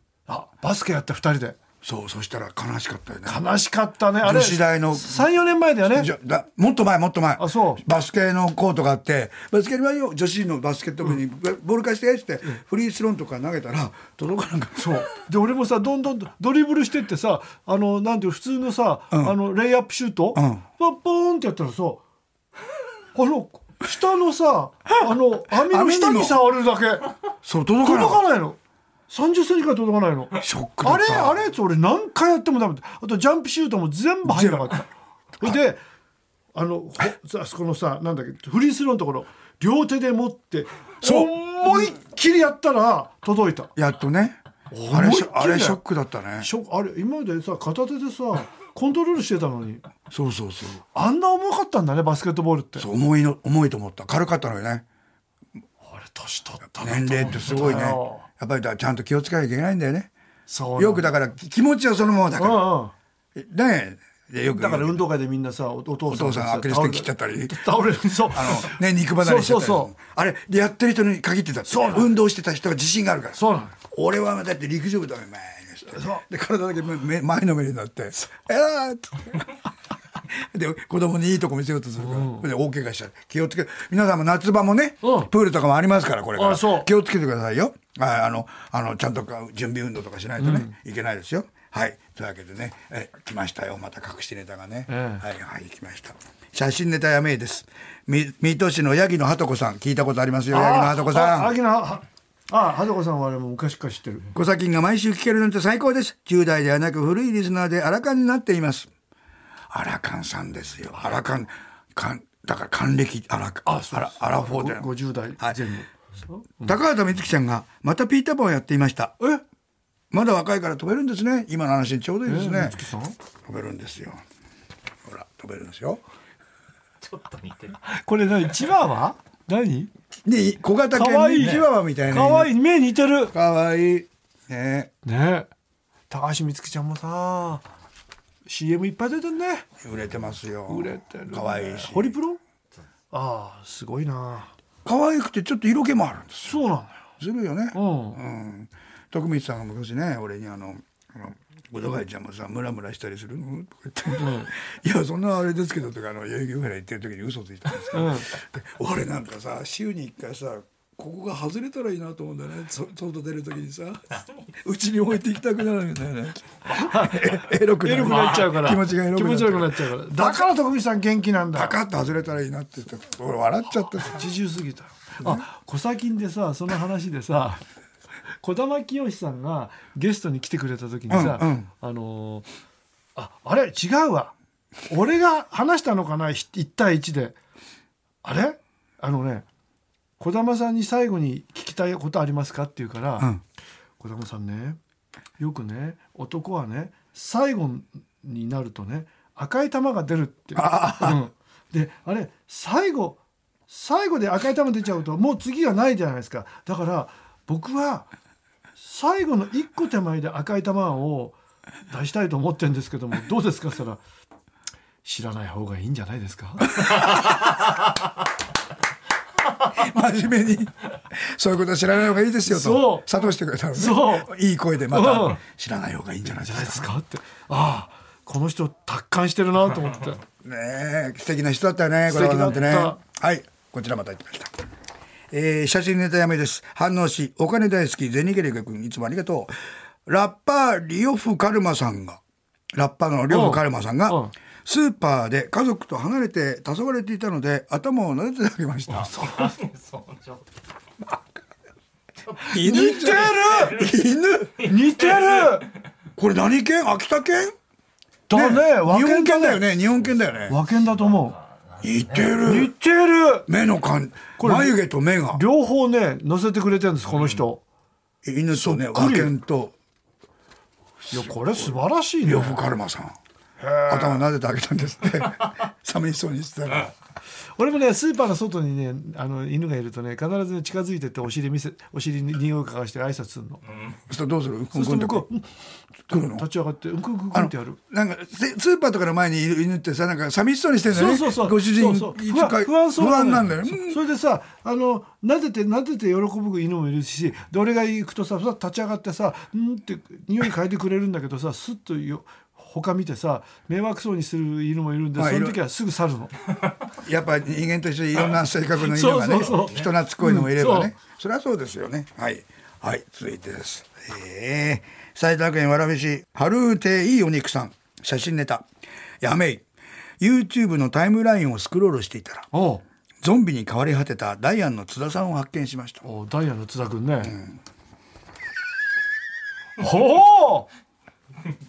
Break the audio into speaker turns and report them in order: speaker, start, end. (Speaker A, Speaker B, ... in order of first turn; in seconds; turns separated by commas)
Speaker A: 0.3-1.6, Speaker B: 1.8-3.4, Speaker A: 3.2-6.1, Speaker B: 4.2-5.3, Speaker B: 5.9-14.9, Speaker A: 7.4-7.8, Speaker A: 14.8-22.0, Speaker B: 19.1-19.4, Speaker B: 20.4-20.6, Speaker A: 23.1-27.1, Speaker B: 25.5-26.4, Speaker B: 27.4-28.2, Speaker A: 27.8-28.6, Speaker A: 29.1-34.9, Speaker B: 30.4-31.4, Speaker B: 34.2-34.8, Speaker A: 35.4-35.8, Speaker A: 36.5-43.7, Speaker B: 41.0-41.3, Speaker B: 43.8-46.5, Speaker A: 44.7-45.8, Speaker A: 46.4-49.9, Speaker B: 50.1-50.9, Speaker A: 50.9-52.9, Speaker B: 52.8-54.8, Speaker A: 55.9-58.3, Speaker B: 56.8-60.1, Speaker A: 60.5-61.1, Speaker B: 60.8-62.7, Speaker A: 62.4-62.9, Speaker B: 63.4-65.0, Speaker A: 64.5-69.9, Speaker B: 66.1-67.6, Speaker B: 68.2-79.5, Speaker A: 71.7-72.2, Speaker A: 73.3-73.8, Speaker A: 75.9-76.2, Speaker B: 80.3-101.6, Speaker A: 82.0-82.4, Speaker A: 85.0-85.3, Speaker A: 86.3-86.9, Speaker A: 90.4-90.7, Speaker A: 94.9-95.2, Speaker A: 100.5-104.3, Speaker B: 104.3-108.9, Speaker B: 109.7-115.6, Speaker A: 113.7-116.8, Speaker B: 116.6-119.2, Speaker B: 120.1-122.8, Speaker A: 122.2-123.2, Speaker B: 123.5-124.2, Speaker B: 125.1-126.0, Speaker C: 127.0-127.8, Speaker A: 127.8-129.9, Speaker B: 130.2-132.5, Speaker A: 130.9-133.3, Speaker B: 133.3-134.9, Speaker A: 135.1-135.5, Speaker A: 136.1-137.7, Speaker A: 138.5-139.7, Speaker B: 139.8-142.2, Speaker A: 140.7-142.4, Speaker A: 143.1-144.5, Speaker B: 144.8-146.6, Speaker A: 146.4-147.1, Speaker B: 147.2-170.5, Speaker A: 147.7-148.2, Speaker A: 154.2-154.5, Speaker A: 157.9-158.3, Speaker A: 166.7-171.8, Speaker B: 171.5-174.3, Speaker A: 174.0-177.6, Speaker A: 178.4-182.5, Speaker B: 181.1-181.7, Speaker A: 183.2-184.3, Speaker A: 184.9-187.4, Speaker A: 188.2-189.5, Speaker A: 190.2-193.3, Speaker A: 194.0-194.8, Speaker A: 195.4-208.1, Speaker B: 200.6-201.2, Speaker A: 208.8-211.4, Speaker A: 211.9-214.0, Speaker A: 215.0-217.0, Speaker B: 219.7-226.9, Speaker A: 222.5-224.3, Speaker A: 224.9-225.4, Speaker A: 226.3-230.2, Speaker B: 230.4-234.5, Speaker A: 232.1-233.0, Speaker B: 235.3-239.5, Speaker B: 240.1-242.2, Speaker B: 242.7-249.1, Speaker A: 243.3-244.3, Speaker A: 249.0-249.5, Speaker C: 249.2-250.4, Speaker B: 252.5-254.7, Speaker A: 252.5-253.8, Speaker C: 253.5-253.9, Speaker A: 254.7-255.7, Speaker B: 256.2-257.6, Speaker A: 258.3-259.7, Speaker B: 258.3-260.6, Speaker A: 260.5-261.4, Speaker C: 261.7-262.3, Speaker B: 261.8-262.7, Speaker A: 262.4-263.5, Speaker B: 263.5-265.4, Speaker A: 264.4-264.8, Speaker A: 265.3-267.6, Speaker B: 268.2-269.7, Speaker A: 268.5-269.3, Speaker B: 271.1-273.2, Speaker A: 271.1-272.6, Speaker A: 273.6-274.2, Speaker B: 273.9-276.9, Speaker A: 277.6-283.6, Speaker B: 284.1-285.3, Speaker A: 284.7-285.5, Speaker B: 286.1-286.5, Speaker A: 286.1-287.8, Speaker B: 287.3-294.0, Speaker A: 290.9-306.3, Speaker B: 305.2-305.6, Speaker B: 307.0-318.7, Speaker A: 308.8-310.9, Speaker B: 319.2-319.6, Speaker B: 320.2-322.5, Speaker A: 322.5-322.8, Speaker B: 323.2-326.0, Speaker A: 326.0-327.4, Speaker A: 329.8-330.7